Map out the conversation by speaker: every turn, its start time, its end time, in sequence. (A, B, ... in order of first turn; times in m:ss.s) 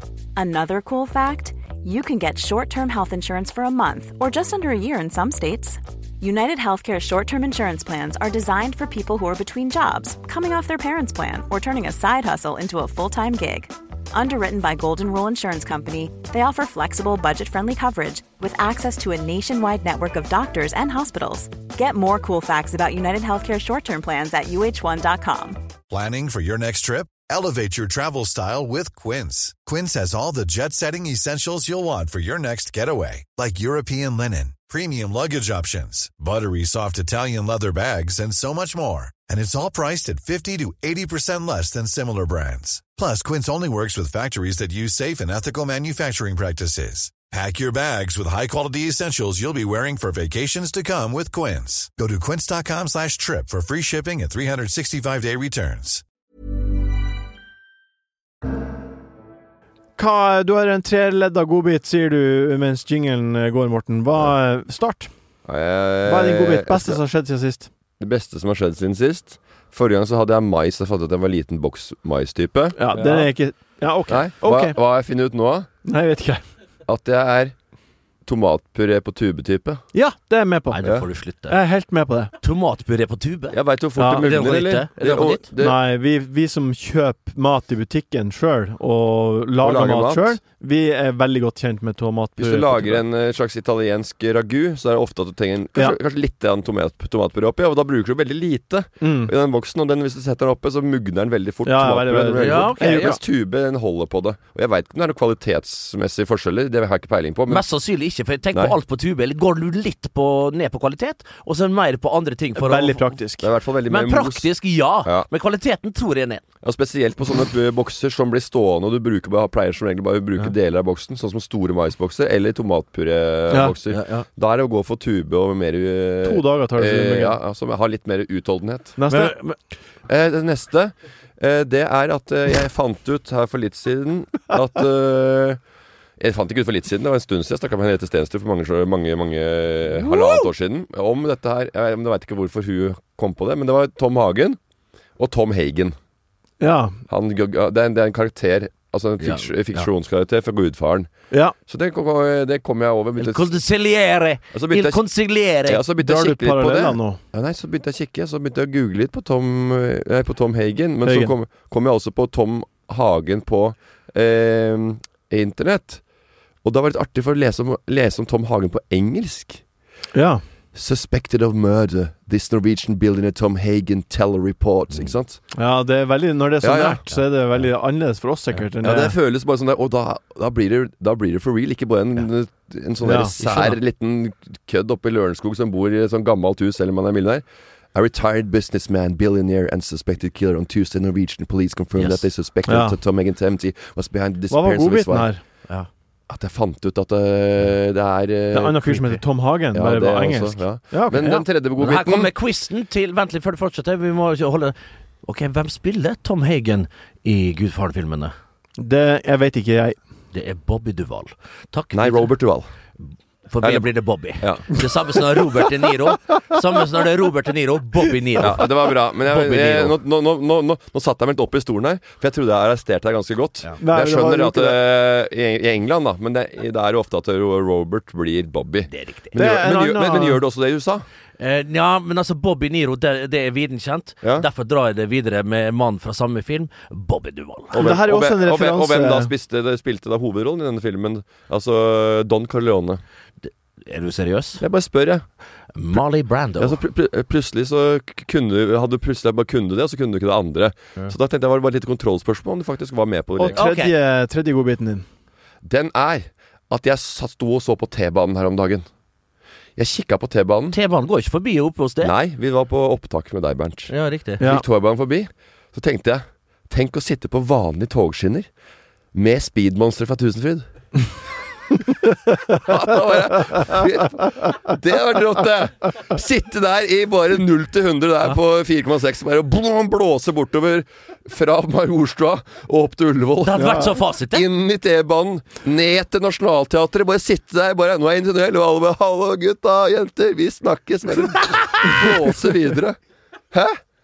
0:00.4-0:25.6 A
0:25.9-0:56.0 B
1:00.0-1:05.1 C
1:05.5-1:07.0 D
1:06.1-1:07.7 C
1:08.0-1:13.3 D
1:12.8-1:14.8 C
1:14.1-1:15.7 D
1:15.8-1:16.4 C
1:16.9-1:17.5 D
1:18.3-1:19.8 D
1:19.9-1:20.9 C
1:20.7-1:21.6 E
1:21.5-1:22.3 C
1:22.4-1:23.6 E
1:23.5-1:25.8 D
1:24.0-1:24.3 C
1:24.2-1:25.4 E
1:25.6-1:33.0 C
1:29.6-1:30.4 D
1:32.4-1:47.6 D
1:39.0-1:39.3 C
1:41.6-1:43.2 C
1:42.4-1:43.2 E
1:47.5-1:53.1 E
1:52.6-1:53.5 C
1:53.4-1:54.5 D
1:53.9-1:56.4 E
1:56.6-2:09.0 D
2:03.5-2:03.8 C
2:03.9-2:04.3 E
2:06.2-2:07.4 C
2:09.0-2:09.4 C
2:09.1-2:09.6 E
2:10.1-2:15.6 D
2:16.2-2:24.6 D
2:20.0-2:20.5 E
2:25.2-2:26.0 D
2:26.6-2:27.0 C
2:27.1-2:31.1 D
2:29.2-2:29.9 E
2:31.7-2:33.6 D
2:33.2-2:35.8 E
2:34.5-2:35.0 D
2:35.7-2:46.0 D
2:36.0-2:37.2 C
2:41.0-2:41.3 C
2:46.6-2:49.6 D
2:50.1-2:50.4 C
2:50.7-2:55.4 D
2:55.5-2:59.1 C
2:56.6-2:57.0 D
2:58.8-3:07.4 D
3:03.0-3:03.3 C
3:03.4-3:03.8 E
3:08.0-3:15.3 D
3:12.0-3:12.3 E
3:12.7-3:13.0 C
3:14.5-3:15.4 C
3:16.3-3:19.2 D
3:18.5-3:21.4 C
3:19.7-3:22.3 D
3:21.8-3:28.3 E
3:28.8-3:30.0 C
3:30.3-3:32.3 E
3:31.9-3:32.7 D
3:33.5-3:40.0 E
3:34.4-3:35.2 D
3:38.4-3:51.1 D
3:43.8-3:44.8 C
3:48.9-3:49.3 E
3:49.4-3:50.4 C
3:51.4-3:57.9 E
3:57.7-4:03.0 D
3:57.8-3:59.3 C
4:03.4-4:04.6 E
4:04.6-4:05.3 D
4:05.8-4:06.8 E
4:06.6-4:13.6 D
4:13.4-4:15.0 C
4:13.6-4:13.9 E
4:15.6-4:18.9 D
4:19.8-4:20.8 D
4:20.7-4:22.1 E
4:22.0-4:28.5 D
4:23.9-4:24.4 E
4:29.1-4:31.0 D
4:32.5-4:53.0 D
4:43.4-4:44.5 E
4:43.6-4:43.9 C
4:53.5-4:53.8 D